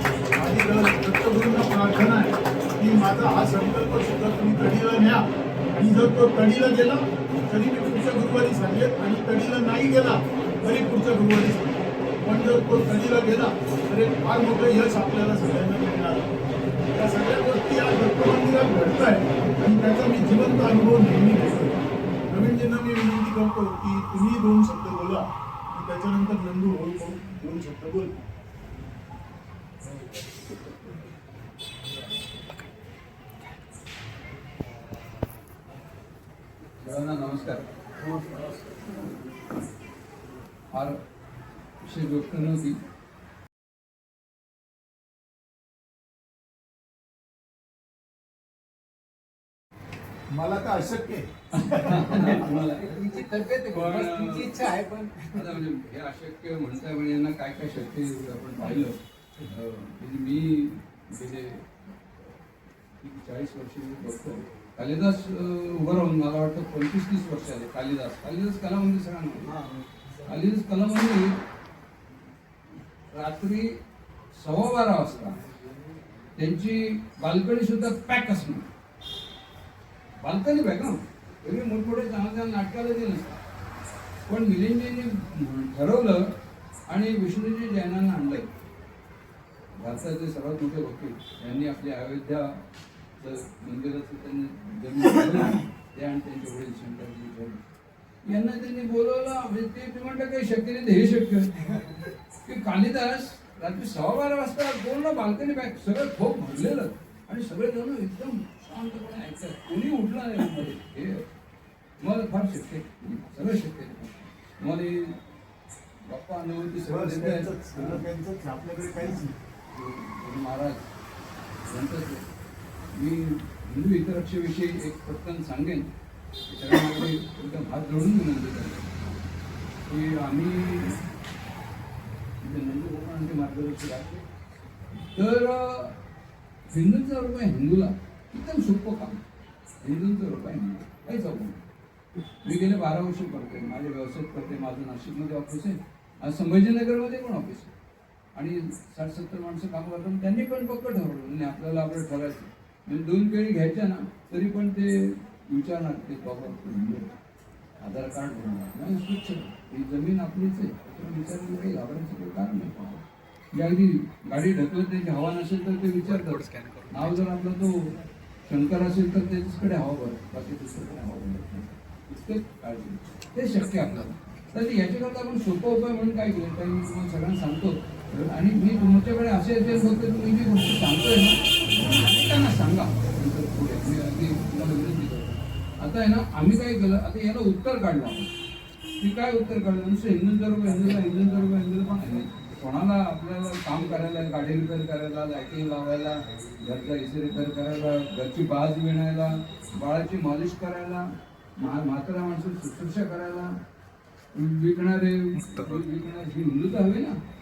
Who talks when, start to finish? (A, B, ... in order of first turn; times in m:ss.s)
0:00.4-0:16.3 A
0:16.9-0:28.2 A
0:36.8-0:37.7 B
0:40.7-0:41.0 B
0:41.8-0:42.8 B
0:50.3-0:52.6 A
0:51.5-0:53.0 B
0:52.1-0:55.5 C
0:53.7-0:54.6 B
0:55.3-1:01.7 B
1:03.0-1:09.6 B
1:10.2-1:11.4 B
1:13.1-1:13.8 B
1:14.4-1:15.4 B
1:16.4-1:18.7 B
1:20.2-1:23.4 B
1:24.3-1:26.3 B
1:26.9-1:28.5 B
1:29.8-1:32.6 B
1:33.2-1:37.6 B
1:38.2-1:41.9 B
1:42.5-1:51.2 B
1:52.0-1:55.2 B
1:56.0-1:58.0 B
1:56.9-1:59.4 A
1:59.7-2:00.8 B
2:01.7-2:02.2 B
2:02.9-2:05.9 B
2:06.5-2:08.9 B
2:09.9-2:11.0 B
2:12.4-2:14.2 B
2:15.0-2:16.0 B
2:16.7-2:19.2 B
2:19.8-2:21.6 B
2:22.4-2:27.7 B
2:28.4-2:37.1 B
2:37.8-2:48.0 B
2:48.5-3:08.3 B
3:09.0-3:21.0 B
3:21.6-3:23.5 B
3:24.3-3:27.2 B